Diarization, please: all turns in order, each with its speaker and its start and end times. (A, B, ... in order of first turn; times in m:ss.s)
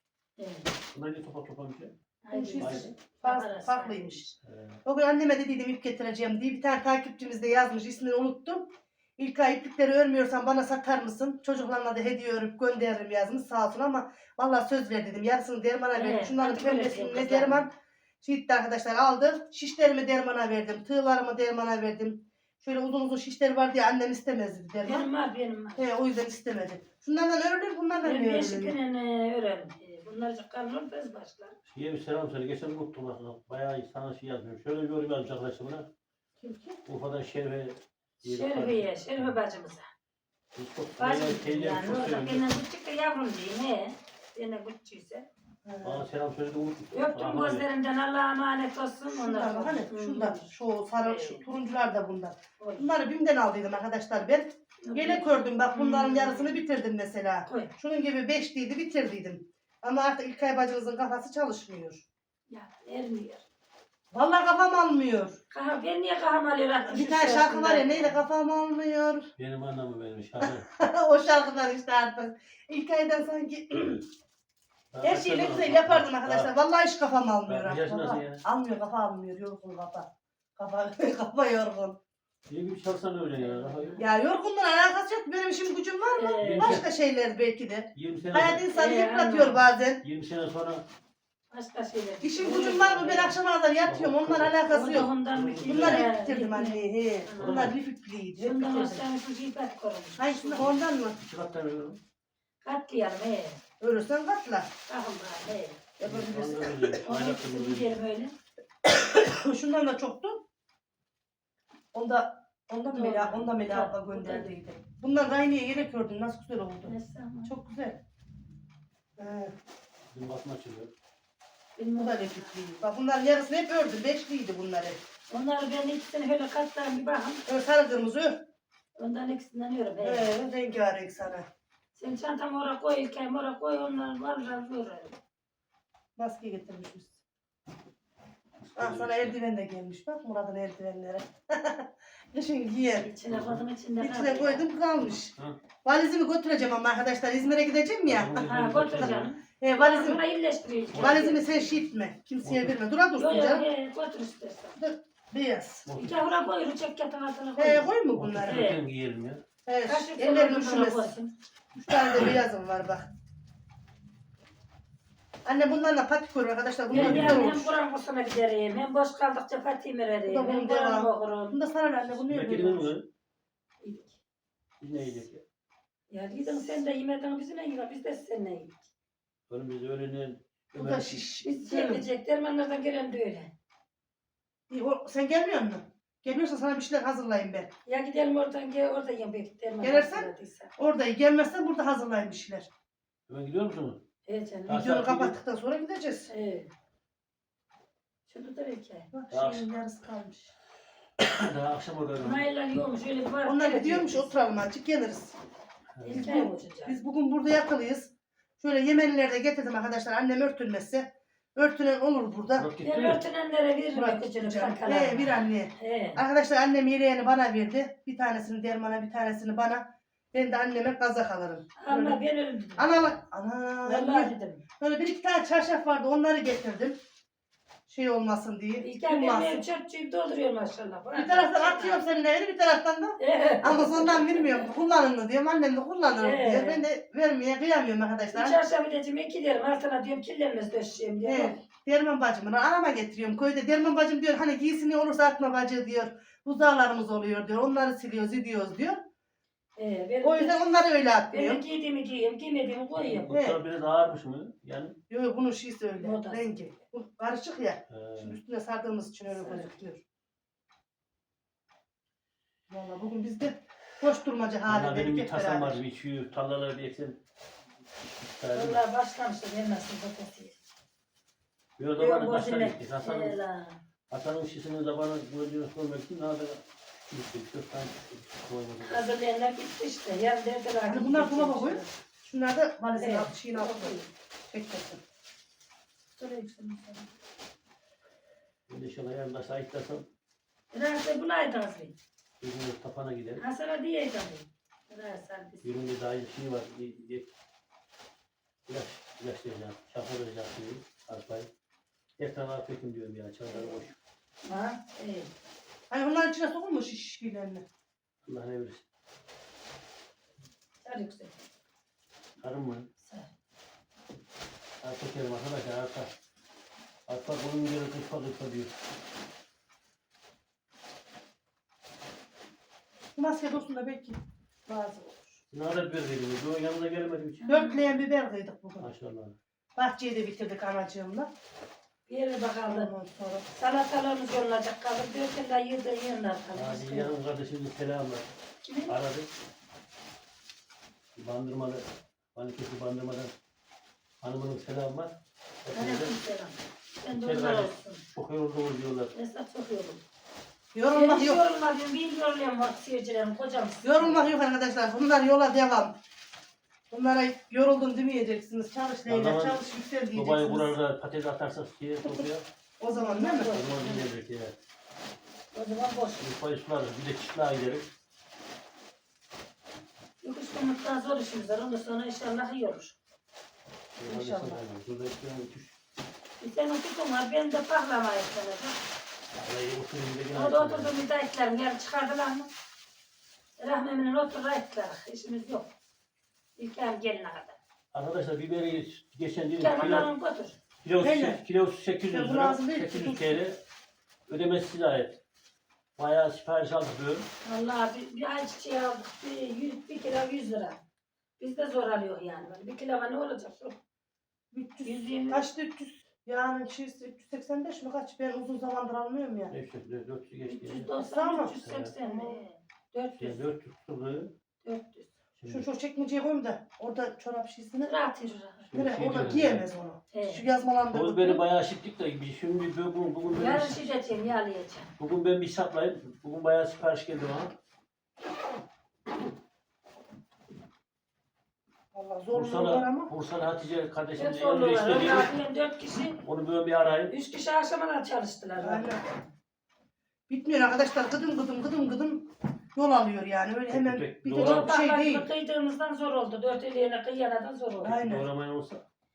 0:00.4-0:00.8 A
0:00.9-0:01.9 B
0:02.2-0:04.3 A
0:02.3-0:04.3 C
0:02.6-0:02.9 B
0:04.4-0:04.8 B
0:04.8-0:17.7 C
0:15.9-0:17.6 A
0:18.2-0:25.1 C
0:24.8-0:25.8 A
0:25.8-0:28.8 C
0:28.0-0:31.5 A
0:31.7-0:35.9 B
0:36.4-0:36.8 C
0:36.8-0:39.3 B
0:38.2-0:39.9 A
0:40.6-0:42.5 B
0:41.0-0:45.2 A
0:45.6-0:46.0 C
0:45.8-0:47.6 B
0:46.9-0:50.5 A
0:49.1-1:02.0 C
0:51.0-0:51.4 A
0:52.6-0:52.9 A
0:54.8-0:56.6 A
0:57.4-0:57.7 A
1:02.5-1:03.4 A
1:04.1-1:05.4 C
1:05.5-1:08.2 A
1:06.8-1:09.3 C
1:09.4-1:10.7 B
1:10.4-1:14.0 C
1:14.9-1:16.5 B
1:15.0-1:22.0 C
1:17.5-1:18.4 B
1:22.5-1:24.0 B
1:23.4-1:24.0 A
1:24.0-1:30.0 C
1:26.2-1:26.8 A
1:26.4-1:26.8 B
1:27.9-1:28.6 B
1:28.7-1:29.6 A
1:30.0-1:30.8 B
1:31.5-1:33.4 A
1:32.2-1:35.1 C
1:33.9-1:34.6 B
1:34.7-1:37.6 A
1:35.3-1:36.0 B
1:35.6-1:39.0 C
1:37.4-1:37.8 B
1:38.4-1:40.8 A
1:40.2-1:41.2 C
1:40.6-1:42.0 B
1:42.6-1:43.6 A
1:43.8-1:44.7 C
1:44.8-1:45.8 A
1:46.0-1:47.0 C
1:46.0-1:47.9 B
1:47.0-1:48.3 A
1:48.8-1:50.4 C
1:51.9-1:56.9 C
1:52.9-1:54.5 A
1:56.8-1:57.5 A
1:57.4-1:58.0 C
1:59.2-1:59.5 C
2:00.1-2:00.9 B
2:01.8-2:02.5 A
2:02.0-2:05.0 C
2:05.3-2:07.4 A
2:07.5-2:08.4 C
2:09.0-2:10.3 A
2:10.0-2:11.5 C
2:11.9-2:15.1 A
2:16.2-2:17.2 C
2:18.6-2:19.4 B
2:18.8-2:23.1 C
2:23.0-2:24.6 A
2:23.3-2:23.6 B
2:24.0-2:28.4 C
2:28.0-2:29.3 B
2:28.4-2:31.8 A
2:29.6-2:30.2 C
2:30.9-2:31.3 B
2:30.9-2:33.7 C
2:32.4-2:32.8 B
2:33.2-2:34.8 A
2:34.8-2:35.8 C
2:35.9-2:36.2 B
2:35.9-2:37.9 A
2:37.6-2:38.6 C
2:38.2-2:39.4 B
2:38.5-2:38.8 A
2:39.6-2:41.1 C
2:39.8-2:41.3 A
2:41.7-2:43.1 C
2:45.4-2:47.7 C
2:46.9-2:51.6 A
2:46.9-2:47.4 B
2:50.2-2:52.9 C
2:52.2-2:53.0 B
2:53.8-2:54.2 A
2:54.8-2:55.4 B
2:56.1-2:58.9 A
2:59.5-3:01.3 B
3:00.7-3:02.0 C
3:01.4-3:03.5 A
3:04.7-3:07.7 C
3:07.8-3:10.7 A
3:09.8-3:12.7 C
3:13.3-3:14.0 B
3:14.2-3:14.8 A
3:14.7-3:15.4 B
3:14.7-3:16.3 C
3:16.3-3:16.7 A
3:18.3-3:19.1 A
3:19.1-3:20.5 C
3:19.3-3:19.7 B
3:21.2-3:22.4 B
3:22.2-3:24.3 A
3:23.4-3:25.4 C
3:26.0-3:26.3 B
3:26.0-3:27.0 A
3:26.1-3:32.7 C
3:32.6-3:33.2 B
3:32.8-3:36.2 A
3:33.9-3:42.2 C
3:41.8-3:43.0 A
3:42.8-3:47.0 C
3:43.8-3:44.6 A
3:47.9-3:49.6 C
3:48.8-3:52.0 A
3:51.1-3:58.6 C
3:53.2-3:54.7 A
3:56.2-3:56.8 A
3:58.3-4:01.6 A
4:01.2-4:09.0 C
4:09.8-4:10.7 A
4:10.2-4:11.6 C
4:11.3-4:13.3 A
4:13.0-4:15.0 B
4:13.3-4:13.6 C
4:15.1-4:20.0 C
4:16.0-4:16.4 A
4:17.9-4:18.4 B
4:19.3-4:19.7 A
4:22.7-4:25.8 C
4:24.7-4:27.2 B
4:28.0-4:28.8 B
4:28.5-4:30.6 A
4:31.8-4:33.4 B
4:32.0-4:33.8 A
4:34.1-4:39.0 B
4:38.8-4:41.9 A
4:40.9-4:44.0 C
4:43.0-4:44.1 A
4:44.5-4:45.0 C
4:46.2-4:47.1 A
4:48.7-4:50.0 B
4:50.7-4:52.0 A
4:52.4-4:53.4 B
4:53.4-4:55.7 A
4:55.6-4:57.3 B
4:58.7-5:01.5 B
5:02.2-5:04.0 B
5:03.5-5:03.8 A
5:04.4-5:05.3 A
5:05.9-5:07.6 C
5:08.2-5:08.8 B
5:10.8-5:11.4 A
5:12.4-5:12.9 B
5:13.0-5:13.3 A
5:14.8-5:16.1 B
5:17.1-5:18.7 B
5:23.1-5:25.4 C
5:25.5-5:27.5 B
5:27.4-5:27.9 A
5:27.5-5:28.9 C
5:28.8-5:29.4 B
5:29.8-5:31.3 C
5:32.1-5:32.9 A
5:32.6-5:33.5 C
5:33.5-5:37.1 A
5:36.5-5:38.3 B
5:38.6-5:38.9 A
5:38.8-5:39.3 B
5:41.2-5:41.8 B
5:42.3-5:43.3 B
5:44.2-5:45.1 B
5:45.6-5:46.1 B
5:45.7-5:48.0 A
5:47.1-5:49.1 B
5:49.1-5:50.0 A
5:50.7-5:51.4 C
5:50.9-5:54.2 A
5:53.8-5:55.9 C
5:56.9-6:00.7 C
5:59.1-6:02.4 B
6:02.8-6:03.5 C
6:02.9-6:04.1 A
6:03.5-6:04.5 B
6:05.5-6:06.2 A
6:06.2-6:07.8 B
6:10.2-6:13.0 A
6:14.0-6:15.7 B
6:14.1-6:14.6 C
6:16.4-6:18.8 A
6:19.3-6:20.9 B
6:20.3-6:22.5 A
6:23.6-6:25.7 A
6:26.6-6:27.6 A
6:27.9-6:30.1 B
6:29.6-6:30.6 A
6:30.8-6:33.6 B
6:31.0-6:31.4 C
6:32.1-6:33.4 C
6:34.3-6:35.2 B
6:36.0-6:37.3 B
6:37.4-6:40.8 A
6:41.4-6:43.8 A
6:44.5-6:49.5 C
6:44.8-6:45.4 A
6:49.5-6:50.9 B
6:50.5-6:53.4 A
6:51.0-6:51.5 C
6:51.6-6:52.0 B
6:52.0-6:52.4 C
6:53.2-6:54.3 B
6:54.6-6:55.1 A
6:55.4-6:55.7 B
6:55.4-6:57.9 C
6:57.8-6:58.6 A
6:58.7-6:59.6 B
6:58.7-7:01.4 C
7:00.1-7:00.4 A
7:00.9-7:03.8 B
7:03.3-7:04.9 A
7:05.0-7:07.5 B
7:11.9-7:13.1 C
7:12.3-7:15.3 B
7:14.2-7:16.2 A
7:16.2-7:17.1 B
7:17.1-7:18.9 A
7:18.6-7:19.0 C
7:20.3-7:25.3 C
7:23.7-7:24.7 B
7:24.3-7:28.0 A
7:27.8-7:28.3 C
7:27.8-7:28.8 B